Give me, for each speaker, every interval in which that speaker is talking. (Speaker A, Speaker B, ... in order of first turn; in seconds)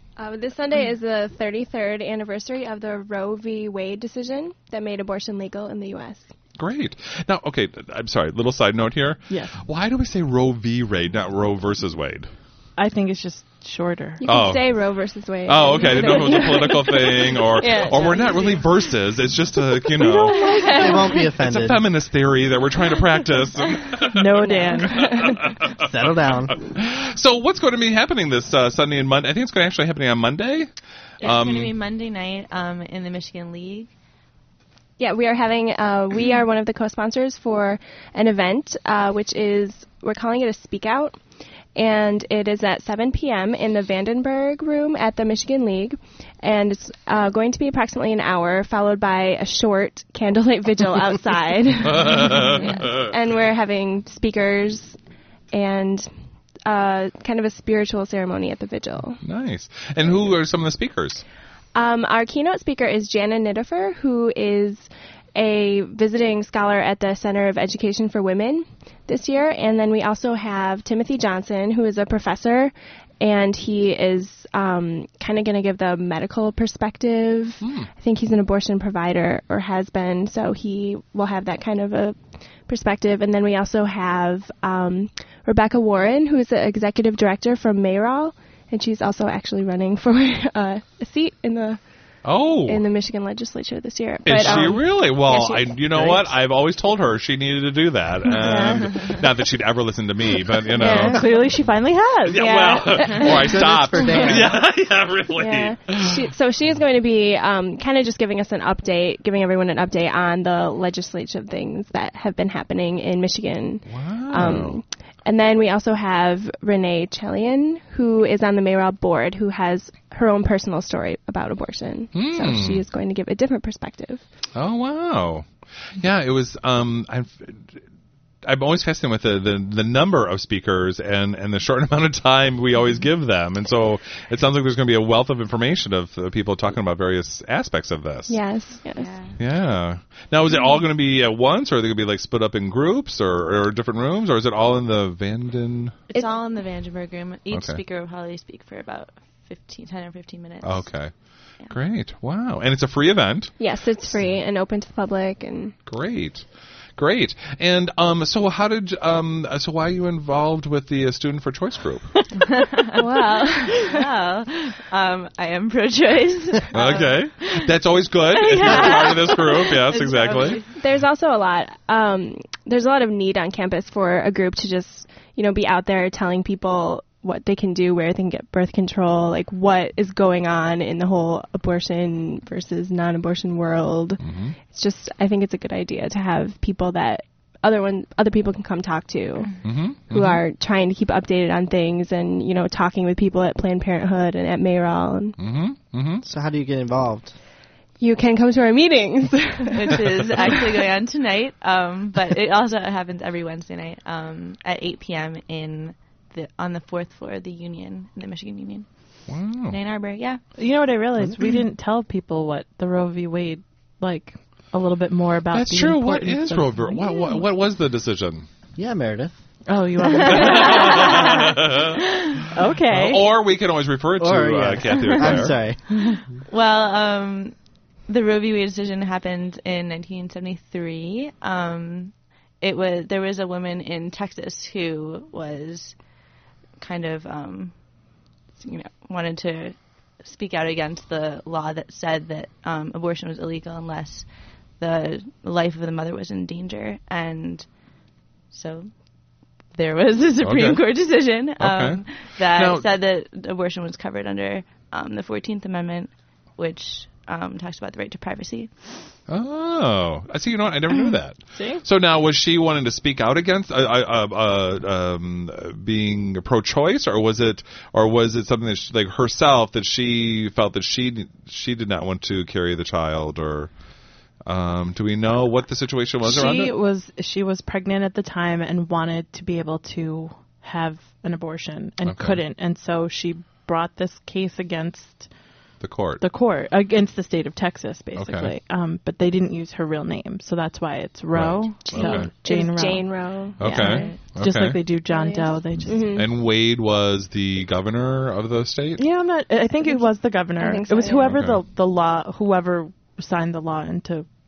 Speaker A: 0.2-6.3, 14.2-18.6, 35.0-41.2, 41.8-55.0, 55.5-56.1, 56.7-59.2, 61.8-91.8, 92.7-96.2, 98.4-99.0, 100.8-101.4, 102.4-103.3, 105.3-124.2, 138.3-139.2, 153.6-155.8, 163.0-163.8, 170.6-189.5, 190.1-195.4, 198.0-199.9, 291.9-294.2, 295.1-296.3, 299.8-301.4
Speaker B: 6.6-12.3, 14.2-14.7, 15.4-20.4, 21.4-24.3, 25.0-30.7, 31.2-31.7, 51.8-53.1, 59.2-61.2, 77.6-77.9, 92.2-92.8, 94.2-101.3, 102.2-106.3, 113.9-114.8, 122.1-122.8, 124.6-127.8, 128.4-138.4, 139.4-146.0, 147.5-147.8, 150.6-151.2, 151.7-153.5, 155.9-162.1, 166.7-170.6, 184.2-184.6, 189.6-190.4, 195.4-196.2, 209.3-209.8, 215.5-218.5, 220.1-222.0, 222.9-225.6, 250.4-250.8, 251.6-252.9, 259.3-273.7, 274.5-276.7, 282.0-282.4, 285.8-286.2, 288.1-288.5, 291.3-292.3, 293.6-294.8, 296.1-299.0, 301.3-301.6
Speaker C: 9.3-9.6, 12.8-14.2, 20.0-21.1, 24.1-25.1, 100.8-102.9, 210.6-217.0, 219.7-221.7, 222.5-223.3, 261.6-261.8, 276.2-285.3, 286.2-296.2, 299.0-304.3
Speaker D: 17.9-18.6, 24.4-24.8, 31.2-33.9, 138.9-139.4, 140.5-140.8, 146.1-150.9, 162.5-170.8, 199.7-210.4, 220.7-221.3, 226.5-227.6, 228.1-236.0, 236.8-237.9, 238.6-244.3, 244.8-247.8, 248.5-259.1
Speaker E: 20.7-21.8, 25.8-26.6, 103.4-104.5, 196.2-197.3, 218.8-219.4, 224.2-225.8